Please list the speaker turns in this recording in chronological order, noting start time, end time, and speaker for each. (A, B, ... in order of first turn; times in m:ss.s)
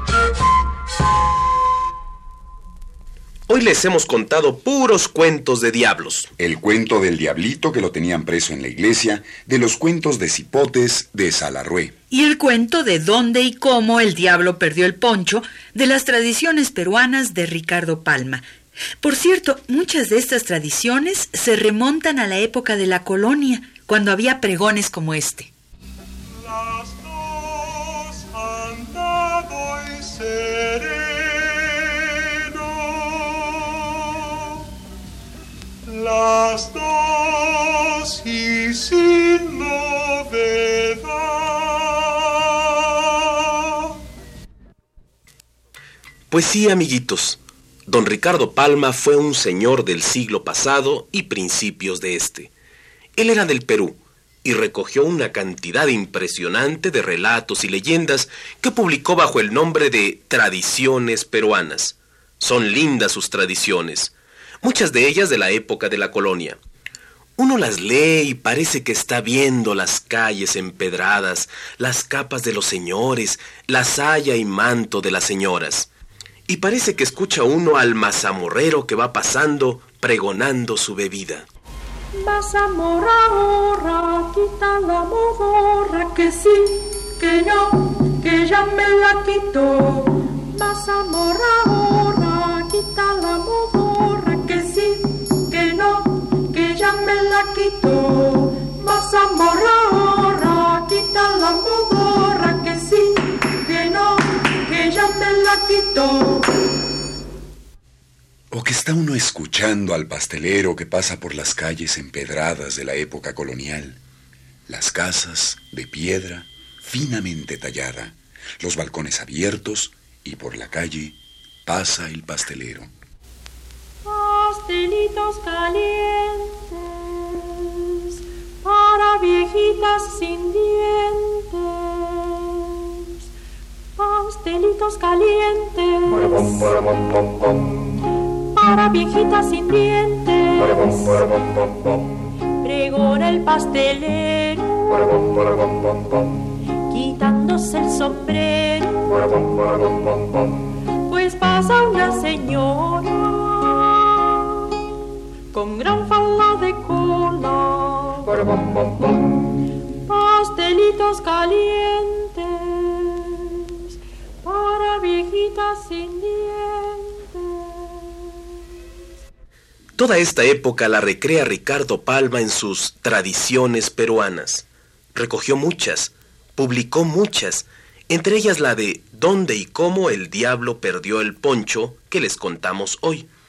0:03.5-0:06.3 A
0:06.4-0:11.9 B
0:12.1-0:18.4 C
0:19.0-0:25.5 C
0:26.4-0:34.1 D
0:35.8-0:42.5 D
0:46.3-0:52.5 A
0:53.2-1:06.6 A
1:07.4-1:15.9 A
1:16.5-1:21.5 A
1:22.1-1:46.5 E
1:48.5-1:54.0 B
1:54.7-2:02.9 B
2:04.0-2:13.2 E
2:14.0-2:17.5 E
2:18.5-2:22.0 E
2:22.6-2:25.6 E
2:26.9-2:29.9 E
2:31.0-2:34.6 E
2:35.5-2:39.4 E
2:40.0-2:43.8 E
2:44.4-2:48.4 E
2:50.0-3:03.3 A